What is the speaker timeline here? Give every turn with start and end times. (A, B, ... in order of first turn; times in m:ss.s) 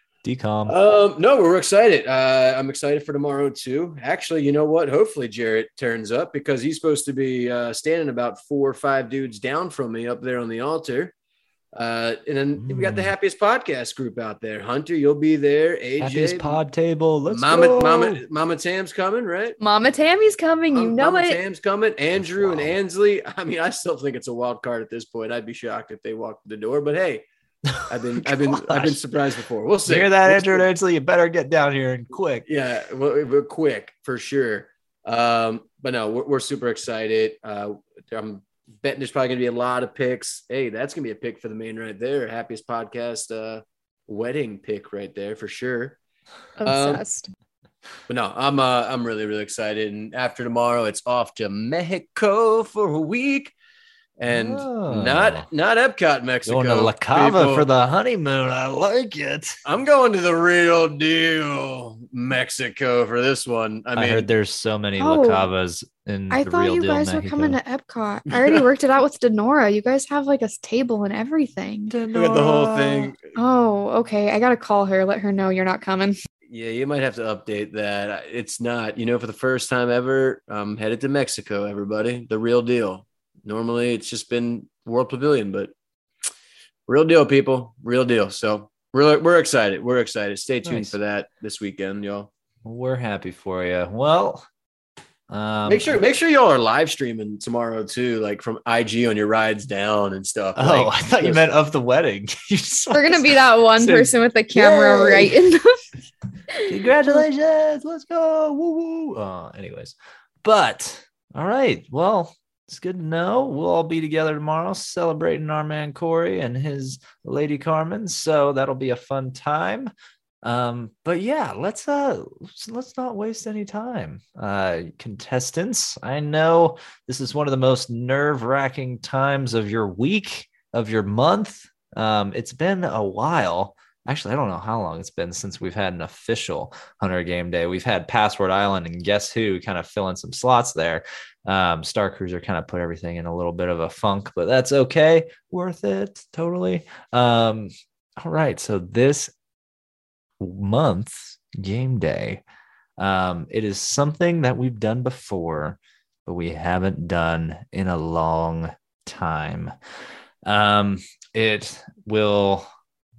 0:00.2-0:00.7 A
0:00.7-0:11.1 B
0:11.7-0:16.6 B
0:12.6-0:13.1 A
0:16.0-0:18.2 A
0:17.3-0:19.6 B
0:19.6-0:21.4 C
0:20.7-0:27.2 B
0:22.2-0:22.8 A
0:27.7-0:29.0 A
0:27.9-0:30.6 B
0:29.8-0:32.4 A
0:32.4-0:46.0 B
0:46.6-0:47.3 C
0:46.6-0:47.0 B
0:48.1-0:53.5 B
0:54.2-0:57.7 B
0:54.3-0:55.5 A
0:56.4-0:59.5 A
0:59.6-1:04.3 B
1:03.9-1:07.6 A
1:05.0-1:05.5 C
1:06.3-1:12.0 C
1:11.9-1:13.1 A
1:12.1-1:13.2 B
1:13.1-1:16.2 C
1:16.5-1:25.7 B
1:26.9-1:32.3 B
1:30.6-1:31.0 A
1:32.6-1:34.4 A
1:35.3-1:36.0 A
1:35.6-1:41.4 B
1:40.6-1:45.3 A
1:42.9-1:45.7 C
1:46.6-1:59.9 A
2:00.4-2:29.3 A
2:30.4-2:32.4 A
2:33.0-2:39.7 A
2:40.4-2:42.6 A